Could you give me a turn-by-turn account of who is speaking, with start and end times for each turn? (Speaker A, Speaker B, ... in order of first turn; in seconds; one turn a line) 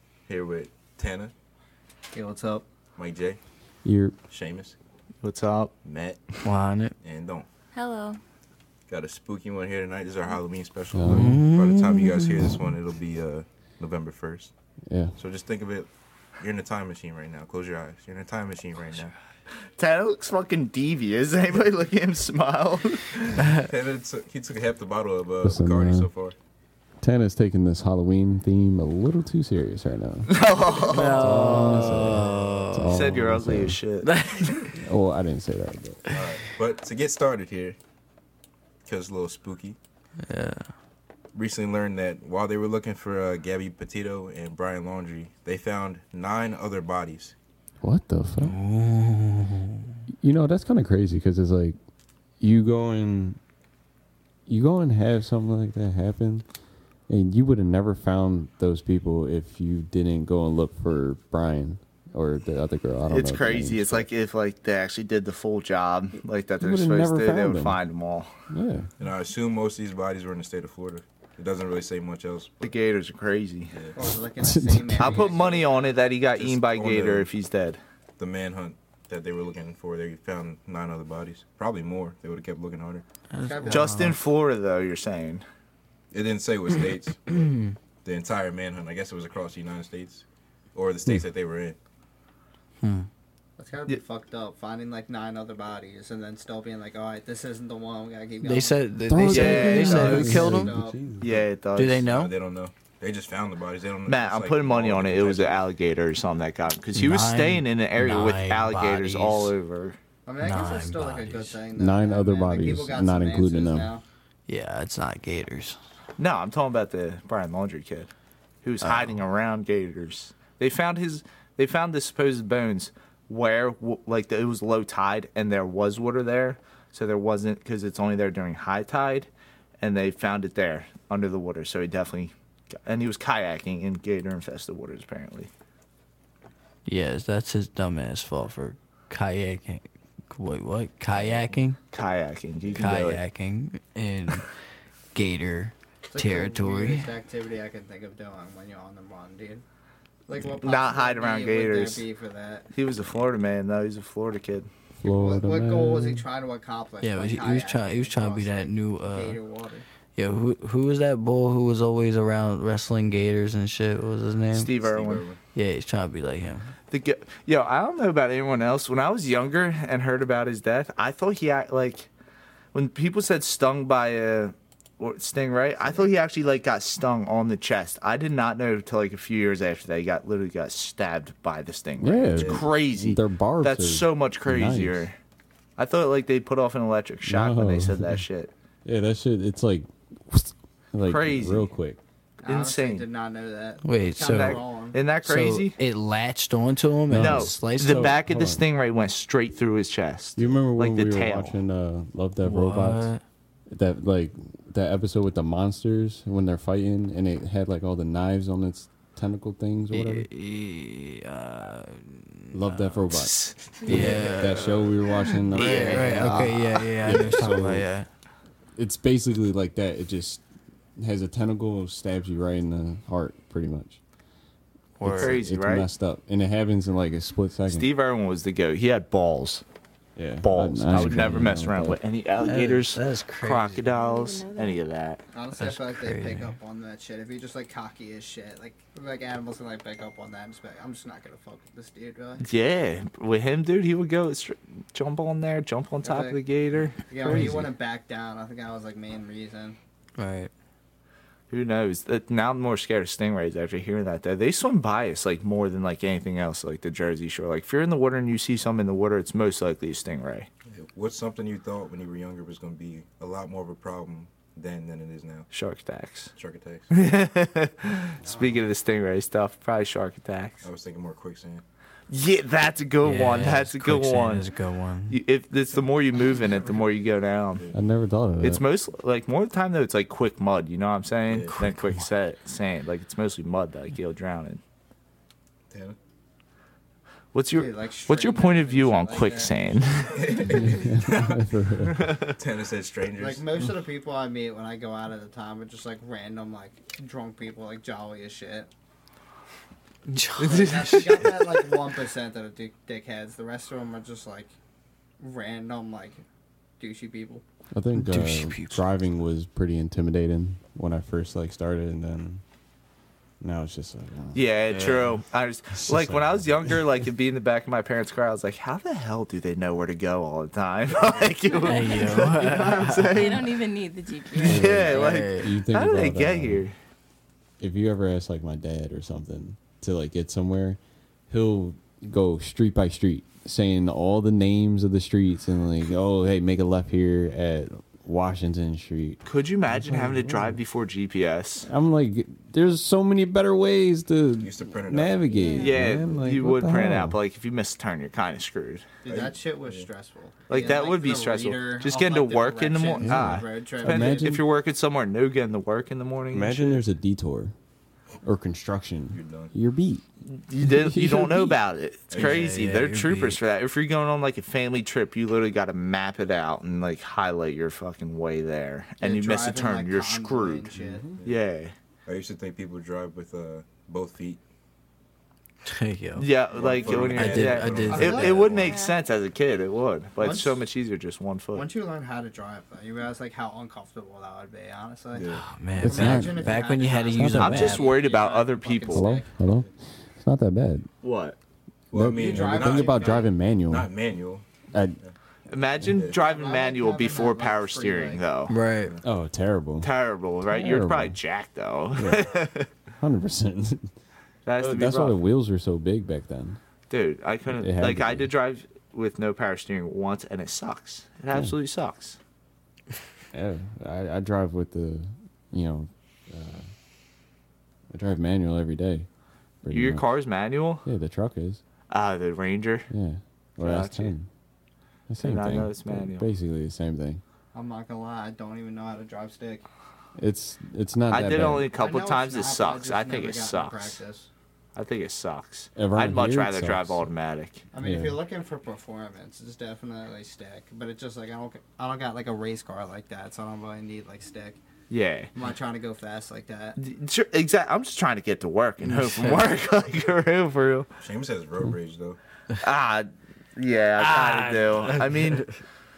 Speaker A: 0.3-1.3
Speaker B: 2.1-2.6
Speaker A: 3.0-3.4
Speaker C: 3.9-4.2
Speaker A: 4.3-4.8
Speaker D: 5.2-5.7
Speaker A: 5.8-6.2
Speaker E: 6.4-6.9
Speaker A: 7.0-7.5
Speaker F: 7.7-8.2
Speaker A: 8.9-14.5
Speaker C: 10.9-11.4
Speaker E: 11.1-12.4
Speaker C: 14.9-15.2
Speaker A: 15.2-19.1
Speaker D: 19.8-23.4
Speaker A: 23.5-26.4
Speaker C: 25.4-26.1
Speaker C: 27.0-33.8
Speaker D: 30.3-31.8
Speaker E: 30.8-33.1
Speaker D: 32.9-34.1
Speaker E: 34.0-34.6
Speaker C: 34.8-36.1
Speaker A: 36.1-37.8
Speaker A: 38.9-39.8
Speaker E: 40.2-40.7
Speaker A: 41.3-47.4
Speaker C: 47.8-48.6
Speaker E: 48.4-49.9
Speaker C: 50.1-51.8
Speaker C: 52.4-53.4
Speaker C: 54.5-56.5
Speaker C: 57.1-64.1
Speaker D: 63.1-68.3
Speaker C: 66.6-67.8
Speaker C: 68.5-68.9
Speaker A: 69.0-72.7
Speaker D: 72.6-73.8
Speaker B: 74.0-75.8
Speaker C: 74.4-75.3
Speaker D: 75.0-77.8
Speaker A: 76.4-77.3
Speaker A: 78.2-83.0
Speaker E: 83.3-84.2
Speaker B: 83.4-84.1
Speaker D: 83.7-85.4
Speaker A: 86.1-91.8
Speaker E: 92.8-93.1
Speaker B: 93.6-101.0
Speaker E: 98.4-100.7
Speaker C: 99.1-101.4
Speaker D: 99.2-100.5
Speaker D: 101.2-102.0
Speaker E: 101.8-102.3
Speaker A: 102.0-105.6
Speaker D: 104.1-110.0
Speaker E: 107.0-109.5
Speaker B: 110.3-114.0
Speaker E: 110.4-111.6
Speaker C: 111.8-113.9
Speaker E: 114.5-115.8
Speaker D: 116.2-118.1
Speaker D: 118.6-129.3
Speaker D: 129.8-135.5
Speaker E: 136.9-141.8
Speaker A: 141.1-141.6
Speaker D: 141.9-143.2
Speaker A: 142.7-142.9
Speaker E: 142.8-144.5
Speaker E: 145.1-147.1
Speaker B: 146.1-149.6
Speaker B: 150.3-152.7
Speaker D: 150.6-152.0
Speaker D: 152.7-154.7
Speaker C: 155.0-156.3
Speaker B: 155.1-159.8
Speaker E: 157.0-159.4
Speaker E: 160.2-164.7
Speaker D: 164.5-165.3
Speaker A: 164.8-165.4
Speaker E: 165.5-166.7
Speaker D: 166.9-172.1
Speaker D: 172.7-185.2
Speaker C: 182.0-185.1
Speaker A: 182.3-182.7
Speaker D: 185.8-188.5
Speaker C: 187.2-188.2
Speaker C: 188.8-192.0
Speaker D: 191.1-191.7
Speaker B: 192.4-195.0
Speaker D: 192.4-193.1
Speaker E: 193.8-194.6
Speaker D: 194.2-195.8
Speaker E: 195.2-198.2
Speaker C: 197.1-198.6
Speaker D: 197.2-201.6
Speaker C: 200.4-203.1
Speaker E: 202.4-203.2
Speaker C: 203.7-210.3
Speaker E: 209.9-214.9
Speaker C: 212.5-217.8
Speaker D: 213.2-214.9
Speaker D: 215.5-216.9
Speaker E: 215.5-218.1
Speaker C: 218.8-220.4
Speaker C: 221.0-224.0
Speaker E: 225.0-225.4
Speaker C: 225.0-227.9
Speaker D: 225.1-225.9
Speaker D: 227.7-229.6
Speaker C: 230.2-232.0
Speaker D: 230.4-235.2
Speaker E: 232.4-233.9
Speaker F: 234.0-234.8
Speaker B: 235.3-242.5
Speaker E: 235.6-236.5
Speaker D: 242.4-247.7
Speaker B: 246.0-246.4
Speaker B: 247.1-249.8
Speaker C: 247.3-247.7
Speaker E: 250.2-250.5
Speaker D: 251.5-260.5
Speaker A: 260.7-265.5
Speaker D: 265.5-266.3
Speaker A: 266.4-266.9
Speaker D: 266.9-270.6
Speaker A: 270.6-271.6
Speaker D: 272.1-274.5
Speaker E: 273.0-275.2
Speaker D: 275.1-277.7
Speaker C: 277.7-278.6
Speaker D: 278.4-284.6
Speaker A: 281.3-281.6
Speaker E: 281.5-282.1
Speaker A: 285.7-286.0
Speaker D: 287.3-290.6
Speaker B: 287.5-290.2
Speaker A: 290.1-291.4
Speaker C: 290.5-292.1
Speaker D: 291.9-292.4
Speaker A: 292.4-293.4
Speaker B: 293.2-298.7
Speaker E: 300.1-301.4
Speaker B: 300.4-304.5
Speaker D: 300.4-301.0
Speaker B: 305.2-306.2
Speaker B: 306.8-307.4
Speaker C: 307.7-312.4
Speaker E: 308.0-308.8
Speaker C: 313.4-314.4
Speaker D: 314.3-323.6
Speaker E: 314.7-315.1
Speaker C: 315.8-316.8
Speaker E: 321.6-323.3
Speaker F: 321.8-322.2
Speaker F: 323.0-325.0
Speaker B: 324.3-324.7
Speaker D: 324.4-326.8
Speaker C: 324.4-326.7
Speaker E: 324.6-325.5
Speaker C: 327.6-340.6
Speaker D: 339.2-341.7
Speaker C: 341.7-347.2
Speaker A: 344.4-345.4
Speaker F: 345.3-345.9
Speaker D: 345.6-348.8
Speaker B: 349.0-354.3
Speaker A: 349.1-349.9
Speaker D: 350.5-356.8
Speaker C: 353.0-354.4
Speaker C: 356.3-357.5
Speaker C: 358.2-360.0
Speaker A: 359.1-359.5
Speaker D: 360.3-370.7
Speaker C: 360.6-361.6
Speaker A: 362.1-362.6
Speaker E: 362.2-363.4
Speaker B: 369.0-371.1
Speaker C: 370.8-371.2
Speaker D: 371.2-371.7
Speaker A: 372.1-374.4
Speaker E: 375.6-376.3
Speaker D: 376.2-381.7
Speaker A: 376.6-378.6
Speaker E: 377.0-378.7
Speaker B: 377.9-378.8
Speaker F: 378.6-379.0
Speaker B: 380.2-380.6
Speaker B: 381.5-389.3
Speaker A: 385.1-385.5
Speaker E: 385.4-387.9
Speaker C: 385.8-386.5
Speaker C: 387.1-387.8
Speaker D: 387.4-389.1
Speaker C: 388.9-390.9
Speaker D: 391.0-391.4
Speaker A: 391.9-394.4
Speaker C: 391.9-393.9
Speaker B: 392.1-393.3
Speaker C: 394.7-395.0
Speaker D: 395.5-398.5
Speaker B: 396.2-398.2
Speaker E: 398.5-399.0
Speaker C: 399.0-399.9
Speaker D: 399.8-402.7
Speaker C: 400.4-401.2
Speaker C: 402.0-402.3
Speaker C: 403.0-403.9
Speaker D: 404.5-405.1
Speaker C: 404.6-406.6
Speaker D: 406.9-412.2
Speaker C: 407.6-408.3
Speaker C: 413.3-416.7
Speaker C: 417.9-419.1
Speaker C: 419.6-420.0
Speaker D: 419.7-420.9
Speaker C: 420.9-421.6
Speaker D: 421.9-422.9
Speaker C: 422.9-424.3
Speaker D: 423.6-424.1
Speaker C: 425.1-427.2
Speaker D: 425.2-426.3
Speaker B: 427.5-429.6
Speaker C: 430.2-431.7
Speaker D: 431.1-434.0
Speaker B: 431.7-434.3
Speaker D: 434.8-437.6
Speaker C: 435.8-437.1
Speaker B: 437.7-444.6
Speaker C: 437.8-438.2
Speaker D: 444.9-445.3
Speaker B: 445.4-446.8
Speaker D: 446.8-450.9
Speaker E: 448.8-449.5
Speaker A: 451.0-452.2
Speaker D: 452.6-455.5
Speaker E: 454.0-455.6